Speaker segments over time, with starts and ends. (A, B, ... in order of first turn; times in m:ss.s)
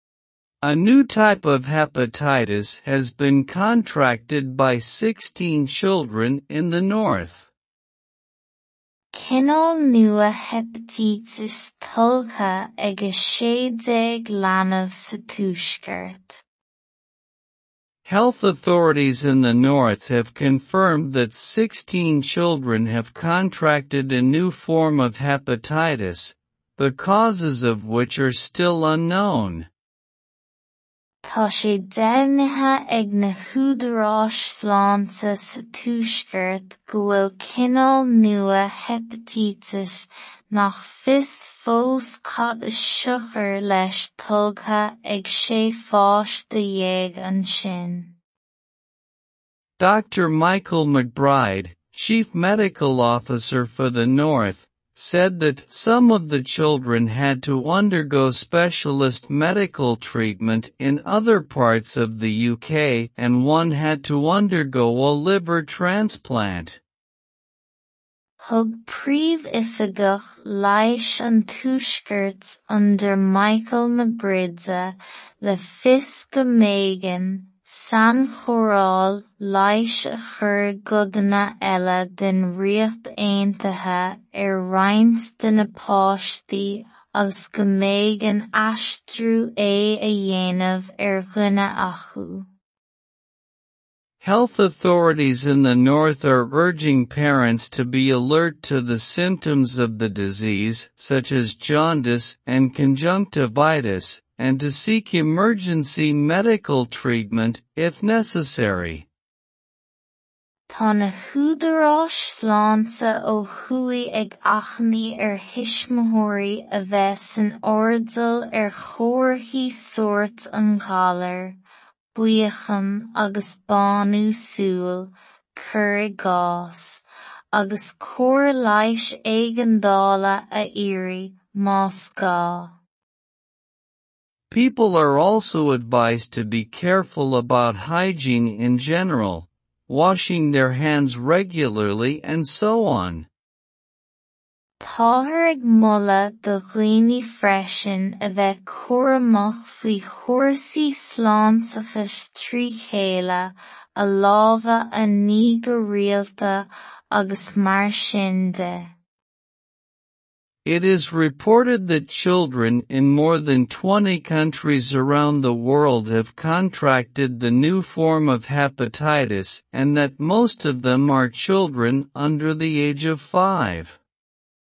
0:00.6-0:07.5 A
0:09.1-0:16.4 B
0:18.0-0:29.7 A
0:31.2-0:48.1 B
0:49.8-1:06.8 A
1:08.4-1:32.4 B
1:34.2-1:49.1 A
1:50.7-2:01.6 B
2:02.1-2:12.8 B
2:14.5-2:23.3 A
2:24.8-2:38.9 B
2:40.6-2:54.0 A